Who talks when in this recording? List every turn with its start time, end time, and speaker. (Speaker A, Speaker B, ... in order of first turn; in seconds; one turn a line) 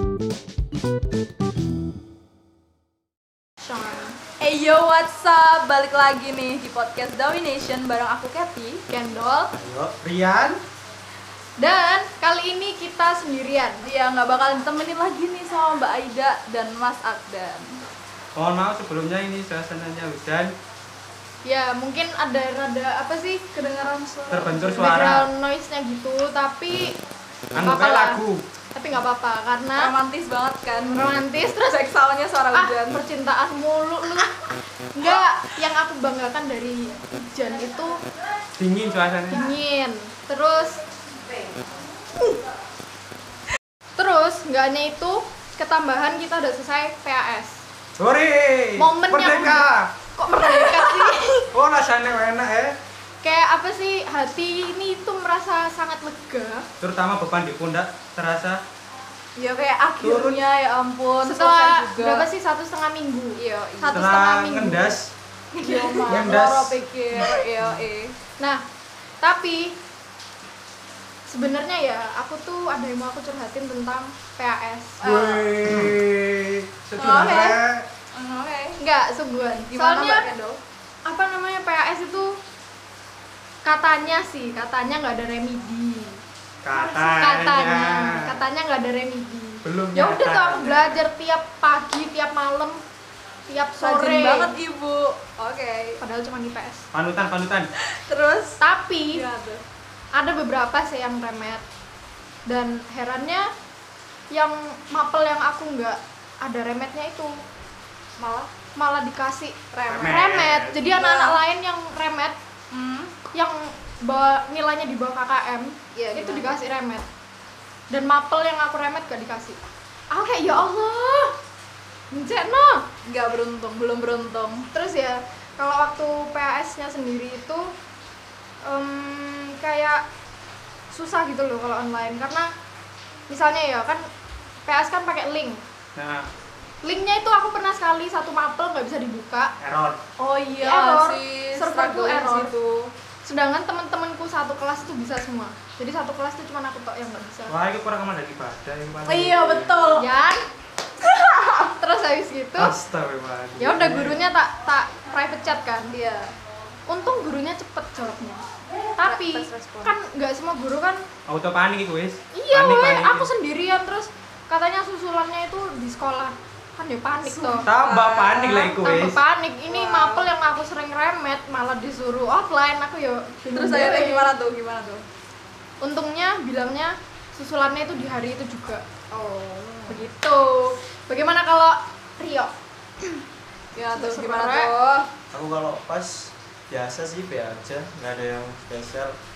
Speaker A: 3.6-4.2
Speaker B: 4.4-8.8
Speaker A: 8.9-9.5
Speaker C: 9.5-9.9
Speaker D: 10.0-10.6
Speaker A: 11.6-13.8
Speaker B: 13.8-17.8
Speaker D: 18.4-20.5
Speaker A: 21.4-23.5
Speaker B: 23.5-24.9
Speaker D: 24.3-25.3
Speaker A: 24.7-27.0
Speaker D: 27.5-28.4
Speaker A: 27.6-28.2
Speaker A: 28.7-29.9
Speaker B: 29.8-33.0
Speaker A: 30.9-31.8
Speaker A: 32.5-38.0
Speaker D: 38.6-39.4
Speaker A: 39.3-40.8
Speaker A: 44.0-47.6
Speaker D: 48.0-49.9
Speaker A: 48.8-51.5
Speaker B: 50.4-51.2
Speaker D: 51.5-52.7
Speaker A: 53.2-56.6
Speaker D: 56.8-58.6
Speaker B: 59.4-62.2
Speaker D: 60.0-60.4
Speaker A: 61.2-65.0
Speaker B: 63.4-63.9
Speaker D: 63.9-65.1
Speaker A: 65.5-66.3
Speaker B: 65.6-68.1
Speaker D: 66.1-66.8
Speaker A: 69.2-69.8
Speaker A: 71.3-75.2
Speaker B: 75.0-75.5
Speaker D: 75.0-77.8
Speaker C: 75.7-75.9
Speaker B: 77.0-78.8
Speaker A: 78.8-80.3
Speaker B: 79.7-80.6
Speaker A: 81.1-82.4
Speaker A: 83.6-86.2
Speaker D: 86.6-88.4
Speaker A: 86.7-92.8
Speaker D: 89.6-91.0
Speaker A: 93.5-94.5
Speaker B: 93.8-96.0
Speaker A: 96.0-96.9
Speaker D: 96.9-97.7
Speaker B: 97.8-98.6
Speaker A: 98.6-99.2
Speaker B: 99.1-99.6
Speaker A: 100.1-101.6
Speaker A: 102.5-103.5
Speaker A: 104.3-107.3
Speaker B: 108.2-108.5
Speaker A: 108.8-112.3
Speaker B: 109.7-110.2
Speaker D: 109.9-110.7
Speaker B: 110.8-111.4
Speaker B: 112.7-113.1
Speaker A: 113.3-117.0
Speaker B: 115.9-116.6
Speaker A: 117.9-119.6
Speaker A: 120.1-121.3
Speaker A: 122.1-122.8
Speaker B: 123.0-124.7
Speaker A: 124.7-127.7
Speaker A: 128.6-130.0
Speaker A: 130.9-132.5
Speaker A: 133.3-134.1
Speaker A: 134.7-135.6
Speaker D: 135.9-136.3
Speaker A: 136.8-139.5
Speaker D: 139.6-140.0
Speaker B: 140.2-142.9
Speaker A: 140.6-142.5
Speaker A: 143.2-147.5
Speaker D: 147.5-149.9
Speaker B: 149.1-150.1
Speaker A: 149.9-150.4
Speaker B: 151.0-151.7
Speaker A: 151.8-152.7
Speaker D: 152.6-154.2
Speaker A: 153.6-155.9
Speaker B: 155.9-156.3
Speaker A: 156.9-158.4
Speaker B: 158.7-159.9
Speaker A: 159.0-161.1
Speaker D: 161.3-163.3
Speaker A: 162.3-167.7
Speaker B: 167.2-168.8
Speaker D: 167.7-169.2
Speaker A: 168.8-174.3
Speaker B: 169.7-170.2
Speaker B: 173.5-175.0
Speaker A: 175.8-178.8
Speaker B: 179.1-180.0
Speaker A: 179.9-183.2
Speaker B: 183.8-185.1
Speaker A: 183.9-184.7
Speaker C: 185.3-189.2